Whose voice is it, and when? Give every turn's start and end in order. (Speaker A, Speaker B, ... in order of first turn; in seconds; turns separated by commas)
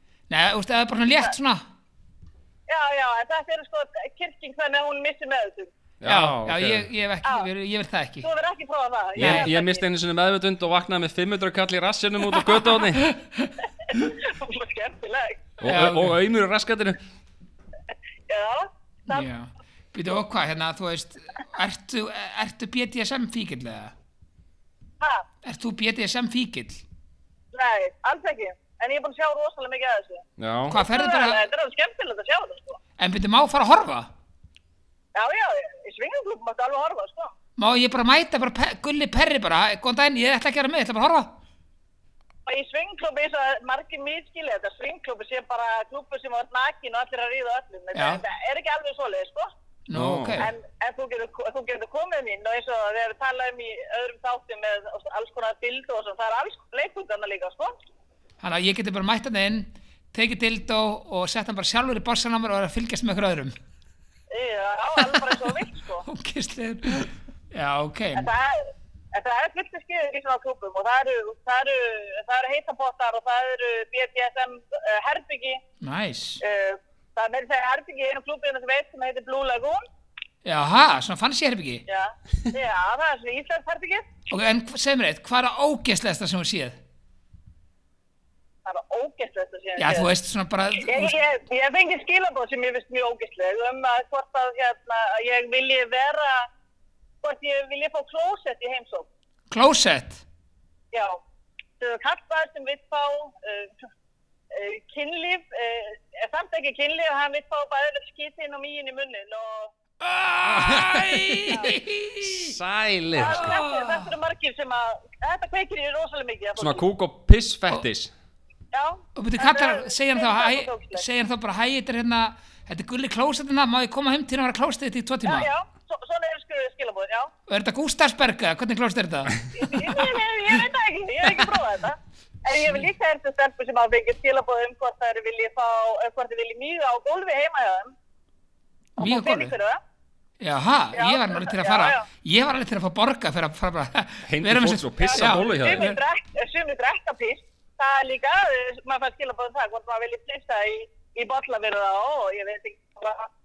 Speaker A: 0.3-1.6, Speaker B: 2.7-5.7, Speaker C: 6.0-6.9, Speaker A: 6.0-8.3, Speaker B: 8.2-9.8, Speaker C: 9.1-13.1, Speaker A: 9.2-9.5, Speaker A: 12.9-13.5, Speaker B: 13.9-15.5, Speaker C: 15.6-17.0, Speaker A: 15.6-16.1, Speaker B: 18.3-19.2, Speaker A: 19.1-23.9, Speaker A: 25.4-26.8, Speaker B: 27.5-32.8, Speaker C: 30.4-30.8, Speaker A: 30.7-31.4, Speaker A: 33.0-34.1, Speaker B: 35.1-37.3, Speaker A: 37.6-41.3, Speaker B: 42.5-49.5, Speaker A: 47.9-48.2, Speaker A: 49.9-50.5, Speaker C: 49.9-50.5, Speaker B: 50.4-57.7, Speaker A: 58.4-63.5, Speaker B: 64.3-66.0, Speaker A: 65.0-65.5, Speaker A: 66.0-68.3, Speaker B: 68.1-75.6, Speaker A: 75.8-76.4, Speaker B: 76.4-79.8, Speaker A: 80.4-81.8, Speaker B: 81.9-84.1, Speaker A: 84.3-86.8, Speaker B: 88.6-90.1, Speaker A: 89.8-91.2, Speaker B: 90.8-96.5, Speaker B: 97.2-99.1, Speaker A: 99.5-100.2, Speaker B: 100.9-101.2, Speaker B: 101.8-103.7, Speaker B: 104.5-109.7, Speaker A: 110.0-112.5, Speaker C: 110.4-111.5, Speaker B: 111.5-111.8, Speaker C: 112.2-113.6, Speaker B: 113.1-116.8, Speaker A: 113.2-114.1, Speaker C: 116.6-118.1, Speaker B: 118.7-121.0, Speaker A: 119.1-125.5, Speaker B: 125.2-127.3, Speaker A: 127.5-129.9, Speaker B: 129.5-137.9, Speaker A: 132.5-132.8, Speaker A: 139.0-139.5, Speaker B: 139.0-139.8, Speaker A: 140.4-146.0, Speaker B: 140.9-142.0, Speaker C: 144.2-145.9, Speaker B: 145.0-153.3